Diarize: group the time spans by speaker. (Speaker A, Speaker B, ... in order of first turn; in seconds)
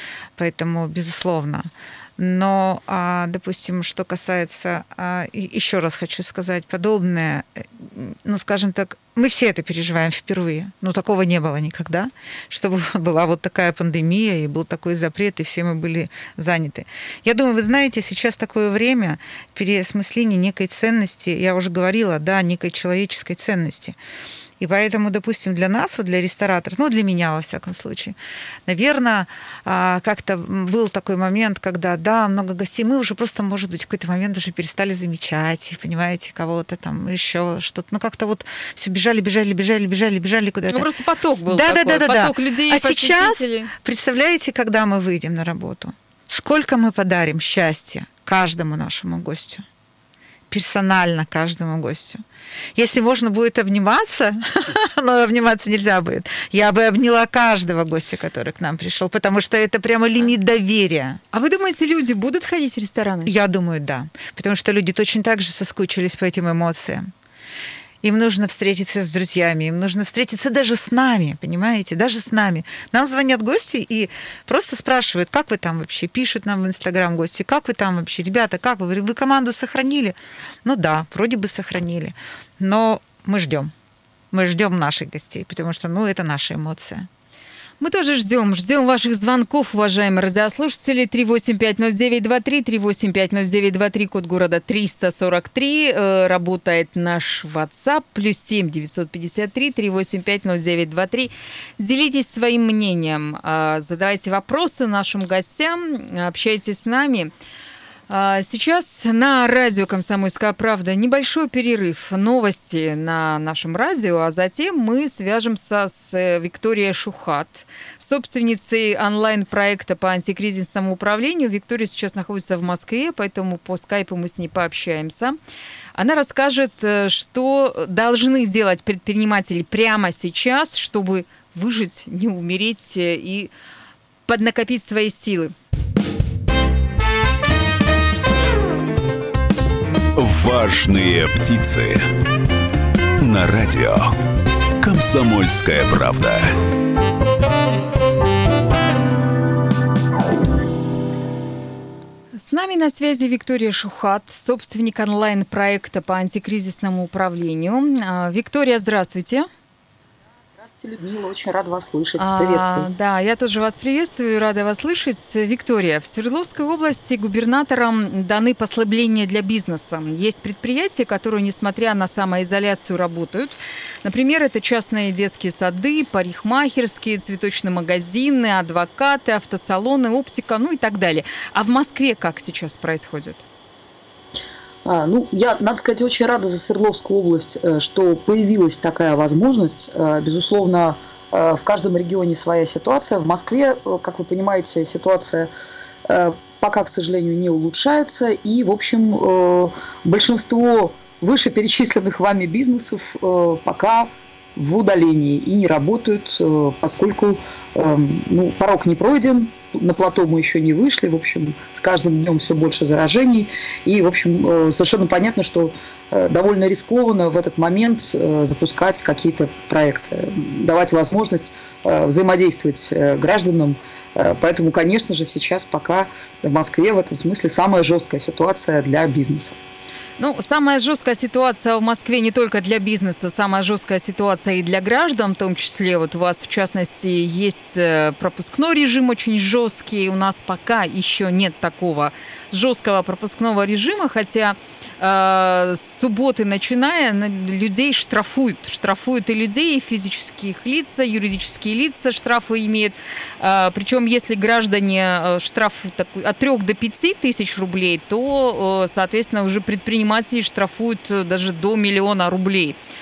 Speaker A: 0.3-24.0, 24.6-40.9, 41.5-49.6, 50.5-52.2, 52.7-61.2, 63.2-67.1, 68.0-83.7, 84.3-87.1
Speaker B: 40.7-43.7, 61.3-63.3, 87.8-107.3, 108.1-125.4, 126.0-133.5, 134.3-135.5, 152.3-159.5, 162.2-183.4, 230.2-262.8
Speaker C: 140.1-142.0, 143.2-144.1, 144.8-146.6
Speaker D: 160.6-162.9, 184.8-195.5, 196.0-229.6